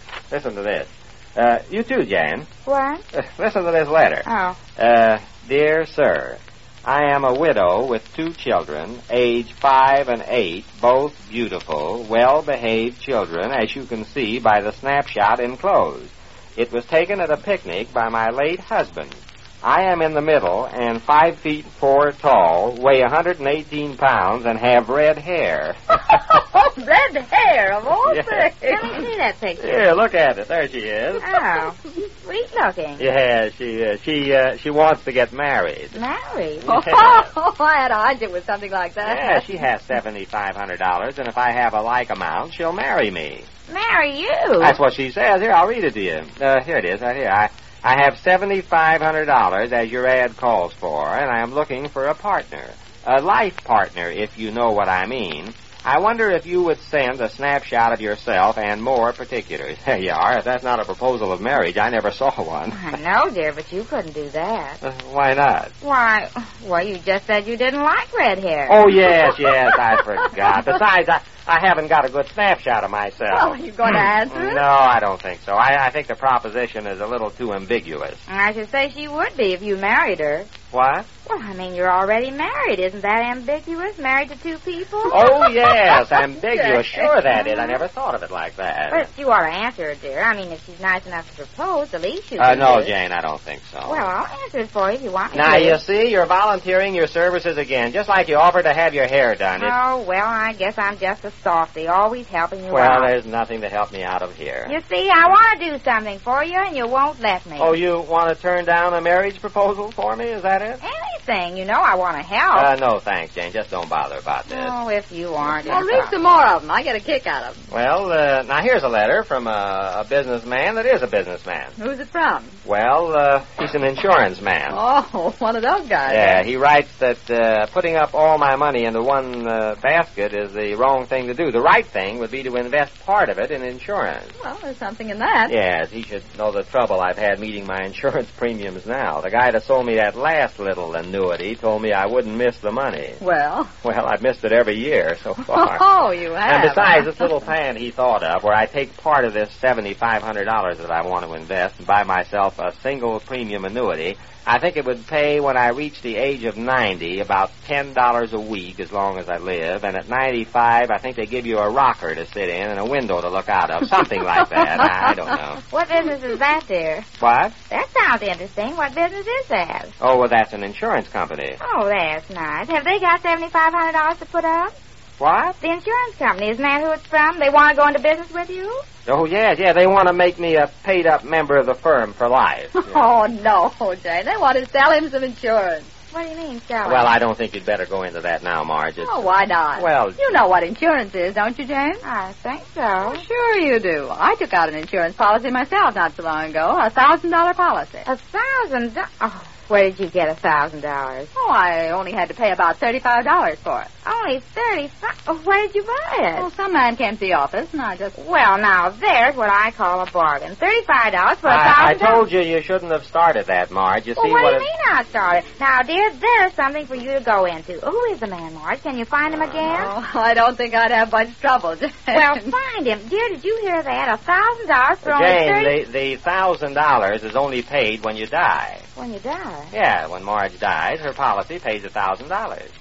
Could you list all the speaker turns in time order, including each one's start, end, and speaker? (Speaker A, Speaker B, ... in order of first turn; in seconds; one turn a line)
Speaker A: 0.3-2.5
Speaker B: 2.6-3.0
Speaker A: 3.1-25.9
Speaker B: 4.2-4.6
Speaker C: 26.1-29.0
Speaker A: 28.1-28.5
Speaker B: 28.6-29.9
Speaker A: 29.6-31.2
Speaker B: 31.2-33.1
Speaker A: 33.0-36.0
Speaker B: 35.9-36.6
Speaker A: 36.6-37.3
Speaker C: 36.6-39.5
Speaker A: 39.0-43.5
Speaker B: 43.7-44.8
Speaker A: 44.6-62.8
Speaker B: 62.7-64.8
Speaker A: 64.8-65.7
Speaker B: 65.8-68.8
Speaker A: 68.7-73.6
Speaker C: 73.3-74.6
Speaker A: 74.3-78.2
Speaker B: 78.3-80.5
Speaker A: 80.7-81.1
Speaker B: 81.2-85.2
Speaker A: 85.1-89.1
Speaker C: 85.1-87.0
Speaker B: 87.3-87.8
Speaker B: 88.9-92.9
Speaker A: 92.4-94.1
Speaker B: 93.8-95.8
Speaker A: 95.3-99.8
Speaker B: 99.5-103.1
Speaker A: 102.7-104.8
Speaker B: 104.7-107.8
Speaker A: 107.6-110.8
Speaker B: 110.8-112.7
Speaker A: 112.5-114.7
Speaker B: 114.5-116.2
Speaker C: 115.6-117.7
Speaker A: 117.7-121.7
Speaker C: 121.8-122.6
Speaker A: 122.6-124.8
Speaker C: 124.7-126.4
Speaker A: 126.1-134.3
Speaker C: 134.4-135.6
Speaker A: 135.5-143.2
Speaker C: 143.2-143.7
Speaker A: 143.8-145.8
Speaker C: 145.5-147.1
Speaker A: 146.4-165.6
Speaker B: 165.7-167.1
Speaker A: 167.2-167.5
Speaker B: 167.7-169.9
Speaker A: 170.0-171.6
Speaker B: 171.6-174.7
Speaker A: 175.2-175.6
Speaker B: 175.6-178.8
Speaker A: 179.1-183.0
Speaker C: 182.8-185.9
Speaker B: 186.1-187.2
Speaker A: 186.8-190.4
Speaker C: 189.0-192.0
Speaker B: 192.0-193.2
Speaker C: 193.0-198.1
Speaker B: 198.0-201.3
Speaker C: 201.3-203.9
Speaker B: 204.0-206.5
Speaker C: 206.3-208.2
Speaker B: 208.1-212.3
Speaker A: 211.4-214.7
Speaker B: 214.2-219.9
Speaker A: 219.3-219.9
Speaker C: 219.7-222.5
Speaker B: 222.1-225.8
Speaker A: 225.0-228.8
Speaker B: 228.9-229.7
Speaker A: 229.7-232.7